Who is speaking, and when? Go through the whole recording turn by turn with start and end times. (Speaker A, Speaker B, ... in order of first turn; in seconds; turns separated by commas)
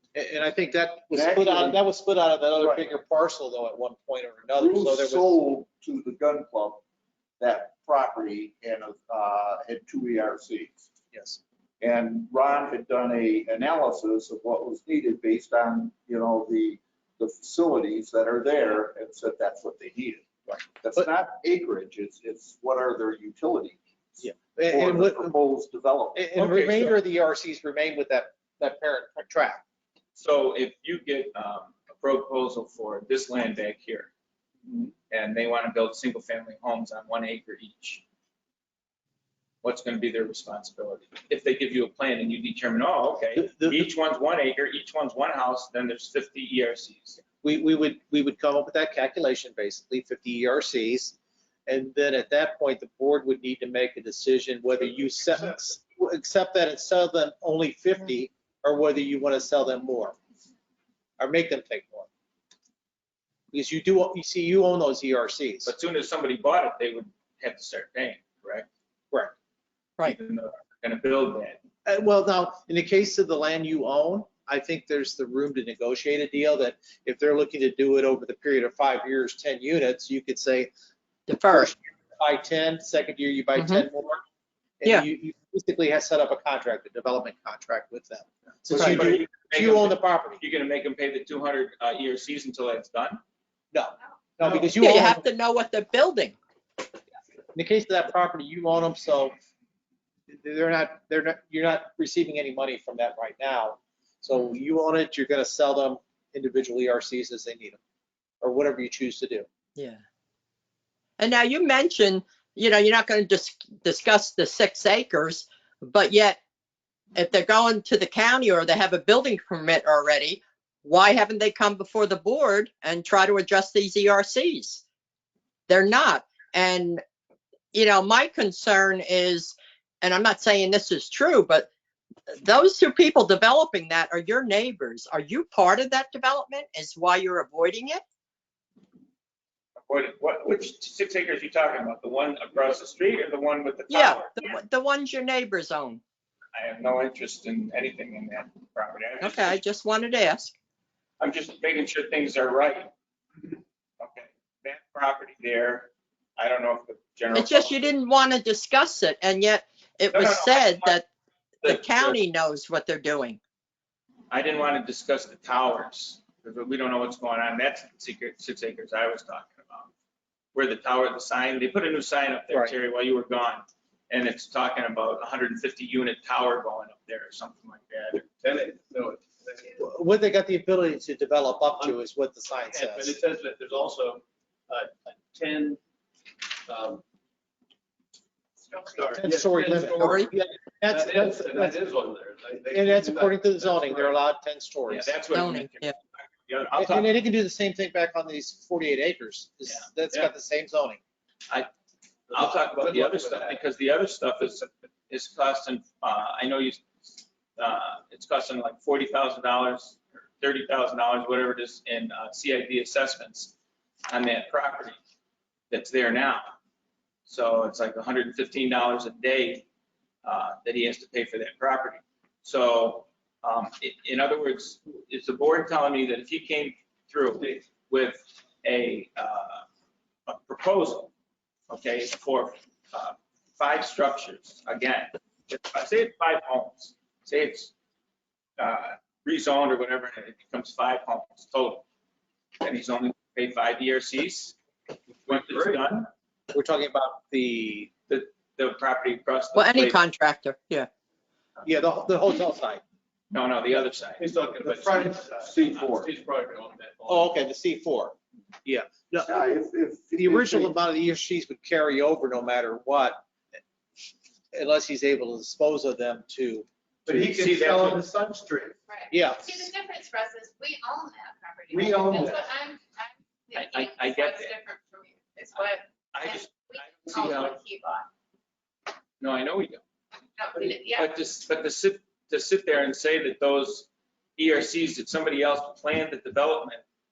Speaker A: 0.1-5.3, Speaker B: 1.1-1.8, Speaker B: 2.5-2.9, Speaker B: 4.6-6.8, Speaker B: 7.4-10.9, Speaker A: 11.1-11.4, Speaker B: 11.8-26.9, Speaker A: 20.5-21.0, Speaker A: 24.2-25.4, Speaker A: 26.1-29.6, Speaker C: 30.1-34.1, Speaker C: 35.1-38.0, Speaker C: 39.6-47.2, Speaker A: 43.4-43.8, Speaker A: 47.4-51.1, Speaker A: 51.7-60.1, Speaker A: 61.2-62.1, Speaker A: 63.5-65.7, Speaker C: 65.6-68.7, Speaker C: 70.0-71.6, Speaker A: 71.8-80.7, Speaker D: 81.3-81.7, Speaker A: 81.5-84.2, Speaker D: 83.5-83.8, Speaker A: 84.8-90.4, Speaker C: 88.8-93.2, Speaker A: 93.7-95.3, Speaker D: 94.7-96.3, Speaker A: 97.5-99.3, Speaker A: 100.3-107.8, Speaker A: 108.4-109.5, Speaker D: 109.8-110.0, Speaker D: 111.2-116.4, Speaker D: 117.1-124.8, Speaker D: 125.7-127.0, Speaker D: 127.7-131.7, Speaker D: 132.4-138.0, Speaker C: 139.8-144.5, Speaker D: 143.9-146.0, Speaker C: 146.5-149.6, Speaker D: 149.2-150.5, Speaker C: 151.2-152.9, Speaker C: 153.4-157.9, Speaker D: 157.3-161.1, Speaker C: 160.1-161.0, Speaker D: 161.6-163.4, Speaker C: 161.6-162.2, Speaker C: 164.3-169.9, Speaker C: 170.5-178.2, Speaker E: 178.1-179.7, Speaker A: 179.8-183.2, Speaker E: 182.6-185.8, Speaker E: 186.7-187.0, Speaker F: 188.7-189.1, Speaker E: 188.8-194.2, Speaker A: 189.1-191.8, Speaker D: 189.9-190.3, Speaker A: 192.7-195.1, Speaker C: 194.9-197.1, Speaker D: 195.3-195.9, Speaker A: 196.7-201.0, Speaker E: 202.3-203.6, Speaker C: 202.3-213.5, Speaker C: 214.1-215.0, Speaker C: 215.7-216.5, Speaker C: 217.2-219.7, Speaker C: 220.2-229.6, Speaker C: 230.3-231.1, Speaker C: 231.7-237.7, Speaker C: 238.6-241.8, Speaker C: 242.6-244.6, Speaker C: 245.2-246.1, Speaker E: 245.3-245.8, Speaker A: 246.5-247.9, Speaker C: 248.1-250.0, Speaker D: 249.5-250.9, Speaker A: 251.6-252.8, Speaker C: 253.3-254.2, Speaker E: 254.2-257.3, Speaker A: 254.6-255.3, Speaker B: 255.0-256.1, Speaker A: 257.1-259.3, Speaker B: 259.2-260.7, Speaker A: 260.2-263.2, Speaker A: 264.5-269.6, Speaker E: 267.1-267.9, Speaker C: 267.2-268.0, Speaker F: 268.9-278.1, Speaker E: 271.8-272.4, Speaker C: 273.5-274.5, Speaker C: 276.1-277.6, Speaker C: 279.2-279.8, Speaker F: 280.4-281.1, Speaker C: 280.8-286.8